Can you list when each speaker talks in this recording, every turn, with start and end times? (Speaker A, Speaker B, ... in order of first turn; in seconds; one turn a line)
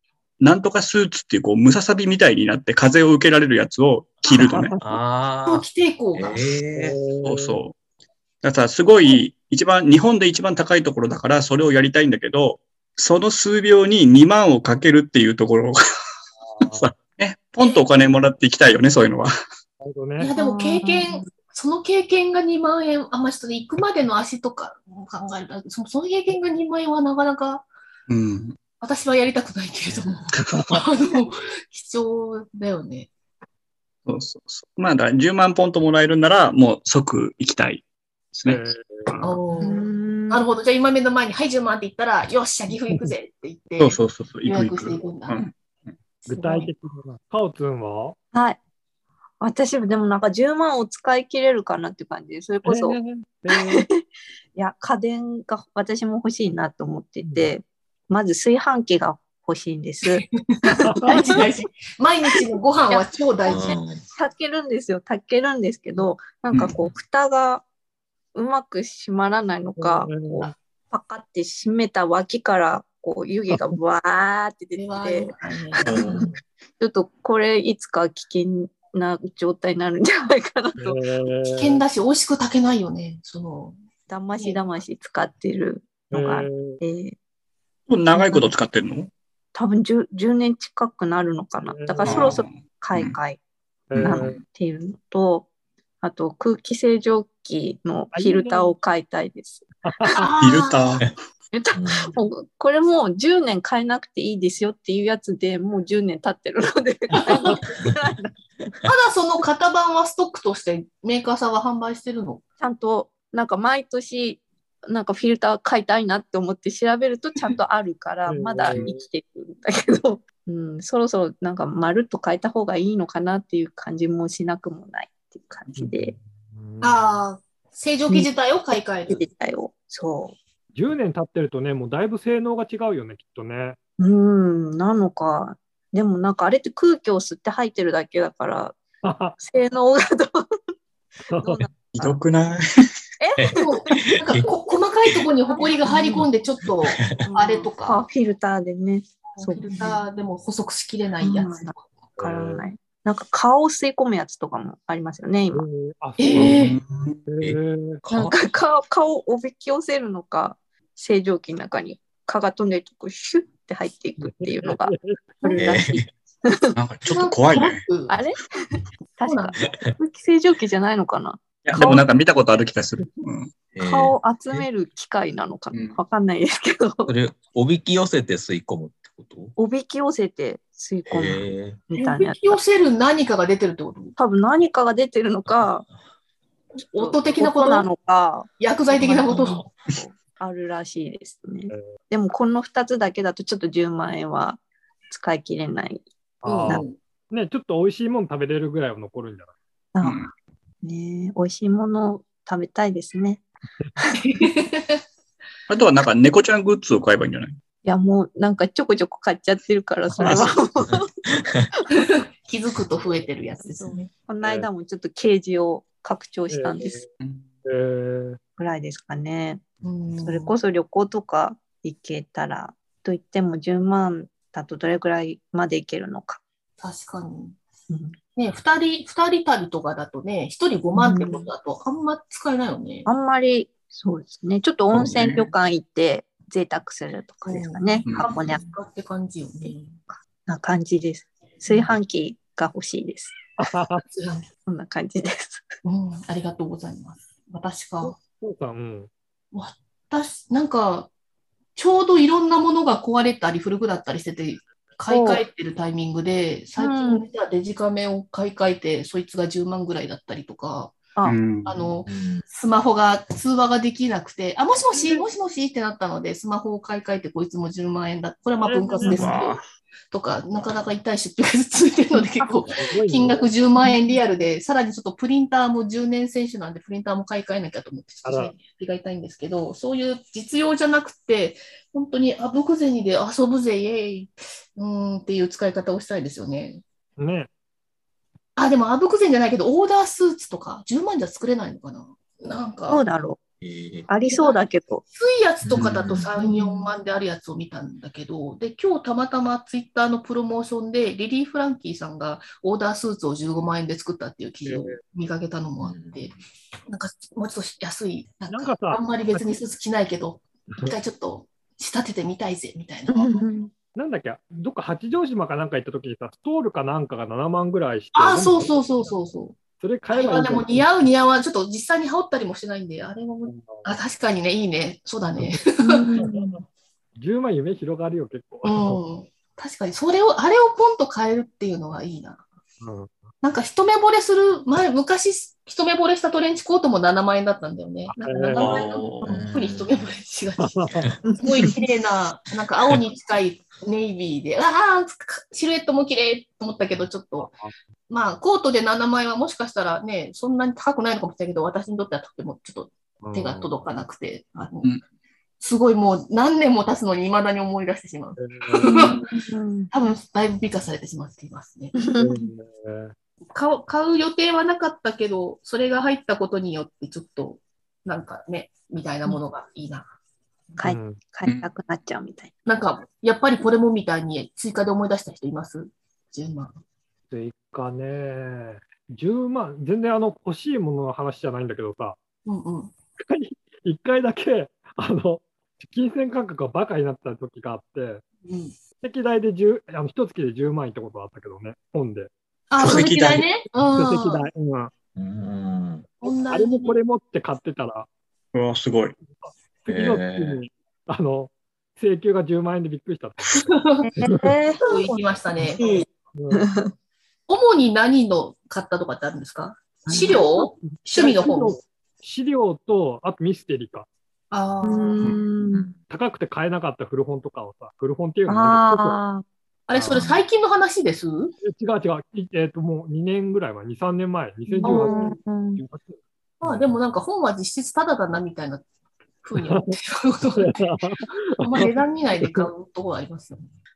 Speaker A: 0.4-4.7
Speaker B: 4.3-5.0
Speaker C: 4.8-7.0
Speaker D: 5.5-6.5
Speaker B: 6.8-7.6
Speaker A: 7.2-7.8
Speaker A: 8.4-15.8
Speaker B: 16.4-16.9
Speaker A: 16.7-19.3
Speaker B: 19.8-20.3
Speaker D: 20.2-27.7
Speaker E: 20.4-21.3
Speaker A: 28.1-28.6
Speaker D: 28.8-33.1
Speaker C: 29.9-30.2
Speaker B: 30.5-30.8
Speaker A: 34.1-39.4
Speaker B: 38.5-39.1
Speaker D: 39.2-45.4
Speaker E: 39.6-40.5
Speaker B: 42.7-43.1
Speaker A: 43.8-45.5
Speaker D: 46.2-46.7
Speaker B: 46.3-48.2
Speaker E: 48.3-48.6
Speaker E: 49.4-53.0
Speaker B: 52.6-53.8
Speaker E: 53.5-54.0
Speaker E: 54.5-60.2
Speaker B: 57.2-57.5
Speaker D: 60.0-63.9
Speaker E: 60.8-61.4
Speaker B: 60.9-61.2
Speaker C: 63.5-64.0
Speaker E: 64.1-67.7
Speaker E: 68.3-81.0
Speaker B: 69.8-70.5
Speaker D: 74.8-76.0
Speaker A: 75.9-76.2
Speaker C: 75.9-76.3
Speaker B: 80.8-81.8
Speaker D: 81.5-83.8
Speaker E: 84.1-87.2
Speaker D: 84.4-84.8
Speaker B: 86.1-86.8
Speaker A: 87.9-89.1
Speaker E: 88.1-88.5
Speaker E: 89.5-93.4
Speaker B: 91.6-92.4
Speaker A: 92.0-93.2
Speaker B: 93.9-94.4
Speaker A: 94.0-94.4
Speaker E: 94.0-95.5
Speaker E: 96.0-100.3
Speaker B: 98.1-98.8
Speaker B: 99.9-100.2
Speaker D: 100.2-101.0
Speaker A: 100.4-101.1
Speaker E: 101.5-108.3
Speaker C: 101.8-102.1
Speaker D: 107.3-107.6
Speaker D: 108.8-112.4
Speaker E: 112.6-126.2
Speaker B: 118.2-119.0
Speaker B: 125.8-127.2
Speaker D: 126.8-129.3
Speaker E: 128.1-130.3
Speaker B: 130.7-133.8
Speaker E: 134.0-138.8
Speaker B: 139.0-139.4
Speaker E: 139.4-140.4
Speaker B: 141.3-141.7
Speaker E: 141.4-142.2
Speaker A: 141.9-142.7
Speaker E: 143.2-144.1
Speaker C: 143.4-144.5
Speaker D: 143.6-148.0
Speaker E: 145.5-146.3
Speaker C: 147.0-147.3
Speaker E: 147.2-150.0
Speaker D: 149.3-152.2
Speaker E: 151.2-151.7
Speaker B: 152.2-152.7
Speaker E: 152.2-155.6
Speaker B: 155.5-156.6
Speaker D: 156.2-156.8
Speaker A: 156.4-157.2
Speaker B: 157.3-158.0
Speaker C: 157.4-158.4
Speaker E: 158.2-164.9
Speaker B: 164.2-165.5
Speaker D: 165.4-165.9
Speaker E: 165.5-165.9
Speaker C: 165.6-166.1
Speaker E: 166.4-166.8
Speaker A: 166.8-167.8
Speaker D: 167.1-168.2
Speaker E: 168.1-172.0
Speaker D: 169.2-169.6
Speaker A: 171.7-173.5
Speaker C: 173.8-174.7
Speaker E: 173.8-177.2
Speaker C: 177.1-179.5
Speaker E: 179.6-182.6
Speaker C: 181.1-181.8
Speaker D: 182.0-184.2
Speaker E: 184.2-185.8
Speaker D: 186.9-187.9
Speaker B: 187.0-187.2
Speaker E: 187.3-196.1
Speaker D: 188.6-189.7
Speaker C: 189.1-189.7
Speaker B: 196.4-199.5
Speaker D: 196.4-197.0
Speaker E: 199.9-200.3
Speaker A: 200.0-200.3
Speaker E: 200.8-203.4
Speaker D: 204.2-205.0
Speaker A: 205.7-207.6
Speaker E: 207.9-211.1
Speaker A: 210.2-210.6
Speaker C: 211.3-211.6
Speaker D: 212.0-214.1
Speaker E: 213.9-217.0
Speaker B: 216.5-217.1
Speaker B: 217.7-218.4
Speaker E: 218.6-219.7
Speaker D: 219.8-220.5
Speaker E: 220.2-226.4
Speaker D: 226.8-227.6
Speaker E: 227.9-228.2
Speaker D: 228.3-233.1
Speaker E: 230.9-231.5
Speaker E: 233.1-238.7
Speaker A: 234.9-235.5
Speaker D: 237.4-240.0
Speaker C: 238.3-238.8
Speaker E: 239.6-243.4
Speaker B: 243.6-244.0
Speaker D: 244.0-244.5
Speaker E: 244.7-245.7
Speaker D: 245.8-248.2
Speaker B: 248.0-249.1
Speaker D: 249.5-251.1
Speaker D: 251.8-269.6
Speaker E: 255.1-255.4
Speaker E: 256.8-257.2
Speaker A: 261.2-261.8
Speaker C: 262.1-262.4
Speaker B: 268.6-269.3
Speaker A: 269.0-269.6
Speaker D: 270.1-286.8
Speaker E: 272.1-272.4
Speaker B: 272.8-273.5
Speaker E: 273.8-274.2
Speaker B: 278.2-278.5
Speaker B: 287.2-287.5
Speaker D: 288.6-293.0
Speaker E: 292.9-293.4
Speaker C: 293.6-294.1
Speaker E: 294.1-295.0
Speaker D: 294.3-306.4
Speaker C: 295.7-296.3
Speaker A: 295.8-296.2
Speaker B: 304.7-305.0
Speaker C: 305.8-306.2
Speaker D: 306.9-313.5
Speaker B: 308.5-309.6
Speaker E: 313.1-313.7
Speaker B: 313.9-319.1
Speaker D: 318.1-326.2
Speaker B: 319.8-320.9
Speaker B: 323.4-324.0
Speaker E: 325.8-326.6
Speaker B: 326.2-326.6
Speaker B: 327.2-329.0
Speaker D: 328.6-332.4
Speaker B: 332.8-333.1
Speaker D: 333.4-340.8
Speaker B: 338.1-338.9
Speaker A: 338.6-339.4
Speaker C: 339.3-340.1
Speaker B: 340.6-341.1
Speaker C: 340.9-341.2
Speaker E: 341.2-341.6
Speaker D: 341.4-347.6
Speaker B: 347.4-347.7
Speaker D: 348.1-354.9
Speaker B: 353.2-353.8
Speaker D: 355.6-361.9
Speaker B: 358.4-359.1
Speaker E: 358.9-359.9
Speaker E: 361.9-362.5
Speaker B: 362.2-363.1
Speaker D: 363.5-370.1
Speaker E: 370.8-372.5
Speaker B: 370.8-371.2
Speaker D: 372.7-376.7
Speaker B: 377.3-382.2
Speaker D: 382.5-382.9
Speaker B: 383.2-388.2
Speaker D: 388.5-388.8
Speaker B: 389.0-392.3
Speaker D: 392.7-394.5
Speaker A: 392.8-393.4
Speaker B: 393.9-394.9
Speaker C: 395.2-396.1
Speaker D: 396.2-397.0
Speaker B: 396.5-398.1
Speaker A: 398.5-399.2
Speaker B: 399.3-403.7
Speaker C: 399.9-400.6
Speaker D: 403.5-404.1
Speaker E: 404.1-406.9
Speaker B: 404.2-404.5
Speaker D: 404.8-405.9
Speaker B: 406.3-406.7
Speaker D: 407.5-411.8
Speaker E: 410.1-410.6
Speaker B: 411.1-414.1
Speaker D: 414.5-415.4
Speaker E: 414.8-415.9
Speaker C: 415.7-416.0
Speaker B: 416.1-419.2
Speaker E: 418.5-419.4
Speaker D: 419.9-421.5
Speaker B: 419.9-420.2
Speaker C: 420.1-420.4
Speaker B: 421.6-426.9
Speaker E: 424.7-425.8
Speaker D: 426.6-428.9
Speaker D: 429.4-430.8
Speaker B: 430.6-432.7
Speaker D: 431.6-433.7